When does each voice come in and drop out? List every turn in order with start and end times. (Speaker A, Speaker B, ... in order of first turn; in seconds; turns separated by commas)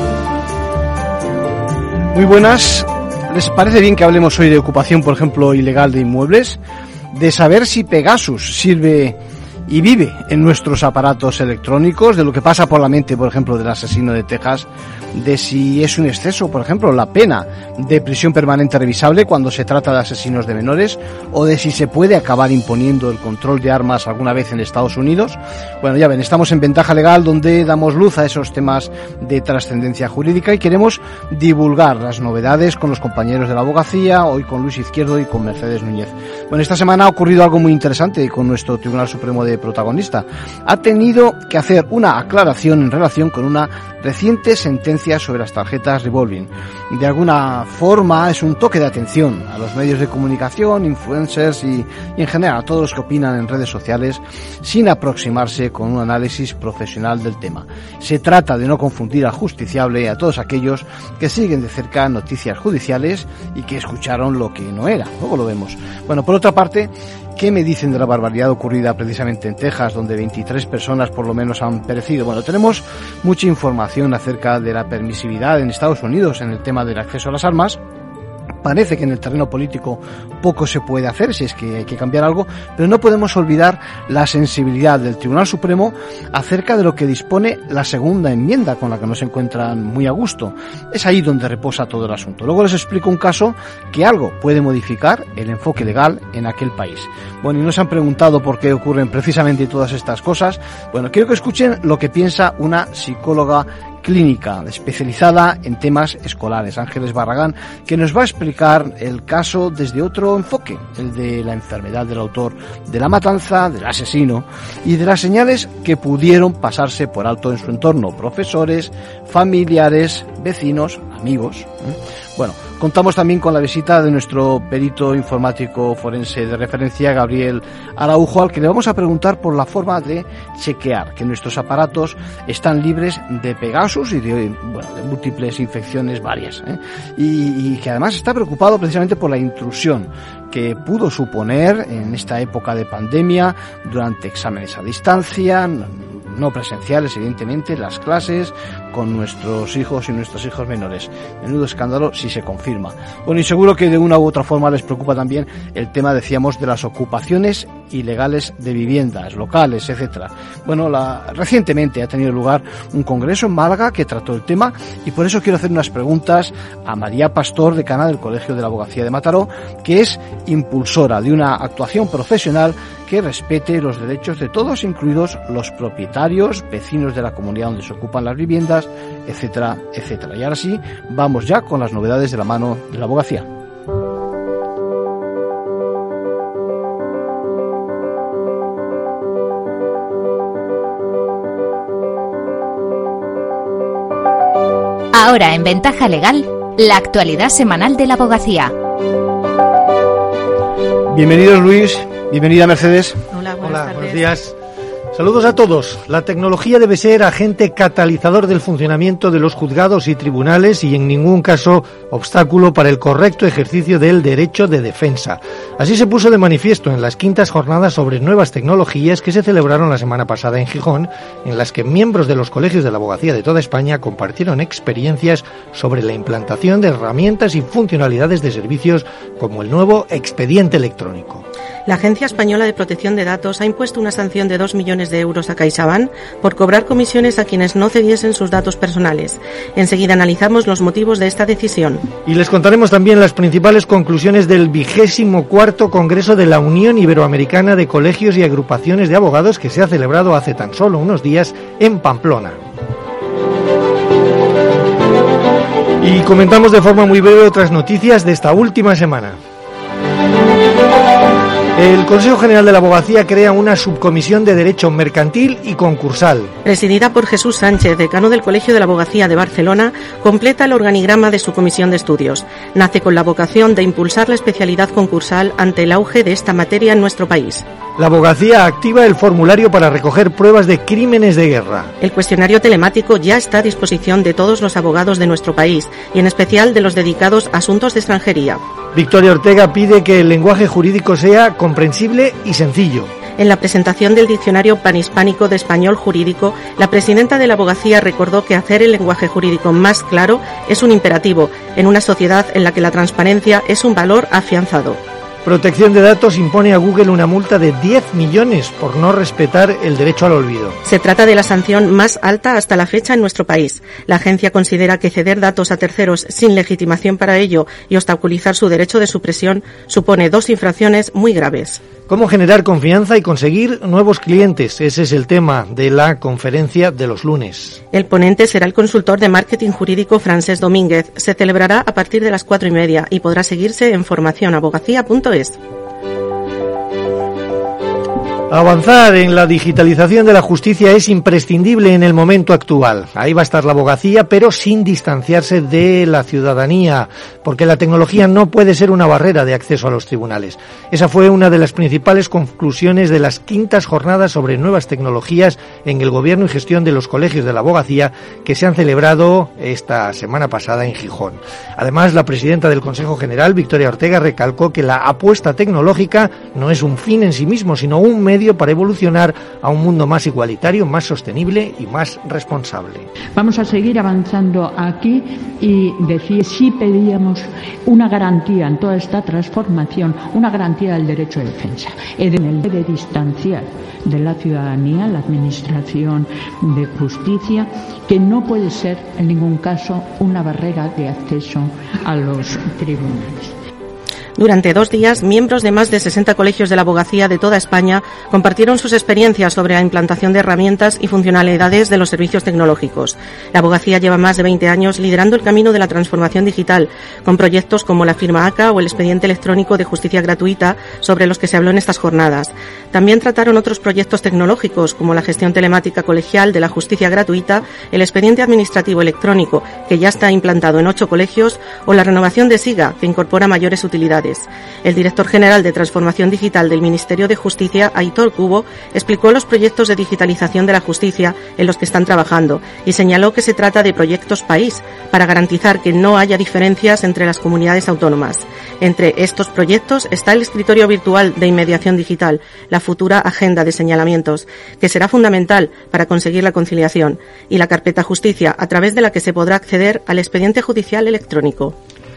Speaker A: 2.1-6.6, Speaker A: 7.1-77.8, Speaker A: 78.6-183.5, Speaker B: 195.1-198.7, Speaker A: 201.1-203.2, Speaker C: 203.3-204.2, Speaker D: 203.6-204.6, Speaker D: 205.1-231.4, Speaker C: 231.9-242.0, Speaker D: 242.2-252.6, Speaker D: 256.0-259.4, Speaker D: 261.8-266.5, Speaker C: 266.6-277.6, Speaker D: 278.0-281.9, Speaker C: 282.0-288.6, Speaker D: 288.9-293.1, Speaker C: 293.4-305.0, Speaker D: 305.4-310.8, Speaker C: 310.8-321.8, Speaker D: 322.1-327.8, Speaker C: 327.9-335.6, Speaker D: 338.5-373.1, Speaker E: 373.3-393.5, Speaker C: 394.4-451.8